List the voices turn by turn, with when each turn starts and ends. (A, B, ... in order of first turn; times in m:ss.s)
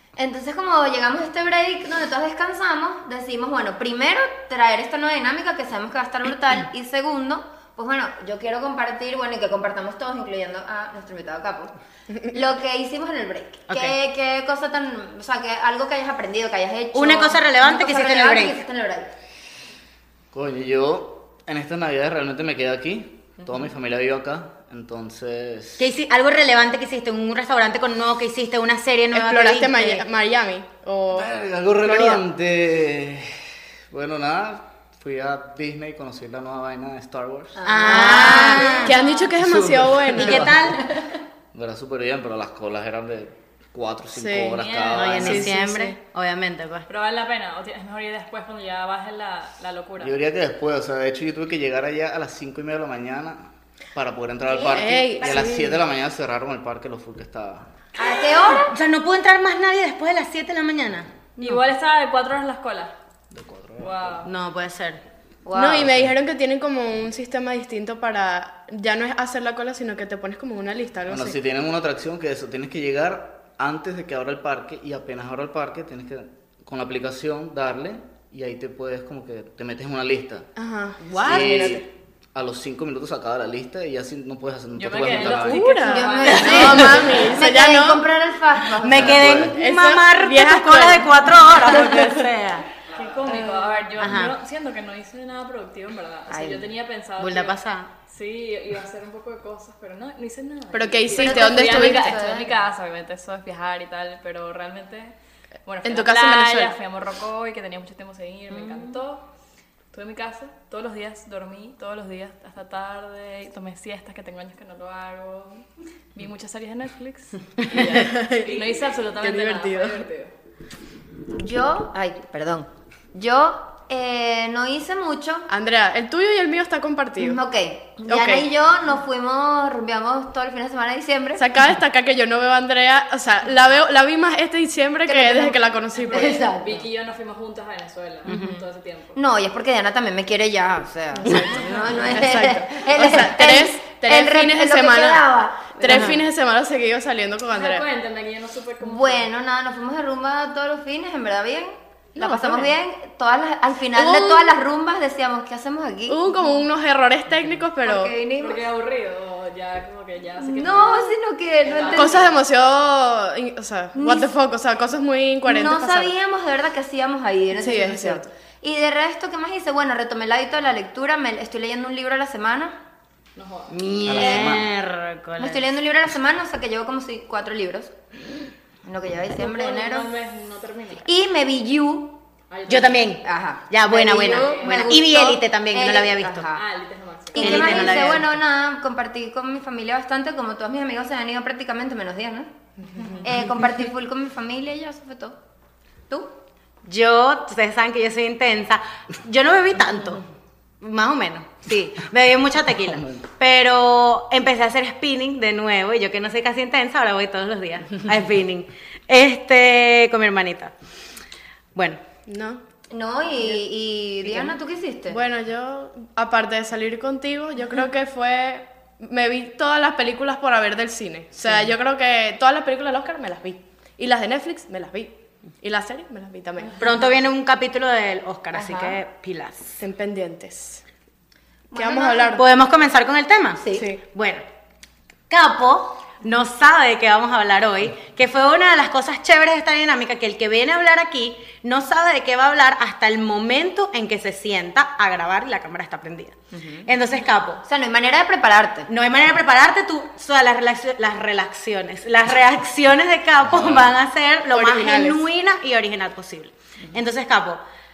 0:00.2-0:11.7 A
0:12.3-0:19.1 A
0:13.7-0:14.0 B
0:16.9-0:18.6 B
0:20.3-0:25.8 C
0:25.8-0:30.0 B
0:29.1-0:31.3 D
0:31.1-0:37.6 C
0:31.8-0:32.2 D
0:37.6-0:39.0 A
0:37.6-0:38.9 B
0:38.0-0:40.5 D
0:38.3-0:39.3 E
0:39.4-0:40.9 C
0:40.1-0:40.8 B
0:40.7-0:41.1 A
0:41.5-0:45.5 C
0:44.2-0:44.6 D
0:44.5-0:45.2 E
0:44.9-0:46.9 B
0:45.2-0:46.0 D
0:46.9-0:50.2 E
0:50.0-0:57.7 C
0:54.4-0:55.5 A
0:54.7-0:55.7 D
0:58.0-0:58.7 A
0:58.5-1:01.6 B
1:01.4-1:02.9 E
1:03.3-1:04.2 C
1:03.8-1:04.3 E
1:04.2-1:05.0 B
1:05.4-1:05.9 A
1:05.5-1:11.4 D
1:05.8-1:06.1 C
1:11.1-1:20.5 C
1:20.6-1:21.8 D
1:21.0-1:21.8 B
1:21.2-1:25.6 C
1:24.8-1:27.3 E
1:25.1-1:28.0 D
1:25.8-1:29.3 A
1:26.2-1:26.9 B
1:28.8-1:32.6 B
1:28.9-1:29.5 C
1:29.4-1:32.1 D
1:32.9-1:45.1 E
1:34.0-1:34.3 B
1:36.3-1:36.6 A
1:37.2-1:37.9 B
1:40.7-1:42.1 D
1:41.2-1:42.6 A
1:45.6-1:49.3 E
1:45.8-1:46.7 D
1:49.9-2:00.3 E
1:57.7-2:00.0 D
2:01.3-2:05.5 A
2:05.5-2:07.4 D
2:07.2-2:11.4 A
2:08.1-2:08.5 D
2:11.4-2:16.4 D
2:15.0-2:16.8 A
2:16.0-2:19.2 E
2:18.3-2:18.6 B
2:19.1-2:26.2 A
2:21.2-2:27.8 D
2:25.9-2:26.2 B
2:27.5-2:29.3 E
2:28.8-2:36.3 A
2:32.2-2:32.7 D
2:33.9-2:34.6 D
2:36.1-2:38.1 D
2:37.8-2:38.6 A
2:38.4-2:42.4 E
2:40.4-2:42.3 A
2:41.9-2:46.1 D
2:43.9-2:44.3 A
2:45.4-2:52.8 A
2:47.5-2:48.3 D
2:53.4-2:53.7 E
2:53.7-2:55.6 B
2:54.0-2:54.6 C
2:54.1-2:54.6 A
2:55.4-2:57.9 A
2:58.8-3:00.1 A
2:59.4-3:01.1 E
3:01.0-3:02.2 A
3:02.5-3:03.2 E
3:02.7-3:06.5 B
3:03.2-3:06.6 A
3:04.2-3:05.0 E
3:06.6-3:08.1 E
3:07.3-3:12.5 A
3:07.4-3:08.3 B
3:13.0-3:13.2 D
3:13.2-3:15.4 A
3:16.1-3:16.3 A
3:16.8-3:20.2 B
3:20.8-3:30.7 B
3:22.9-3:23.2 C
3:31.7-3:32.0 B
3:32.3-3:32.6 D
3:32.9-3:35.2 A
3:34.2-3:34.6 D
3:35.1-3:46.8 D
3:46.8-3:49.8 B
3:48.5-3:49.0 A
3:49.8-3:50.8 D
3:51.7-3:52.4 A
3:51.7-3:52.4 D
3:52.3-3:54.4 B
3:53.6-3:53.9 A
3:55.3-4:07.6 B
4:06.5-4:06.9 A
4:07.6-4:08.9 A
4:08.9-4:17.6 B
4:13.4-4:13.9 C
4:14.5-4:15.2 D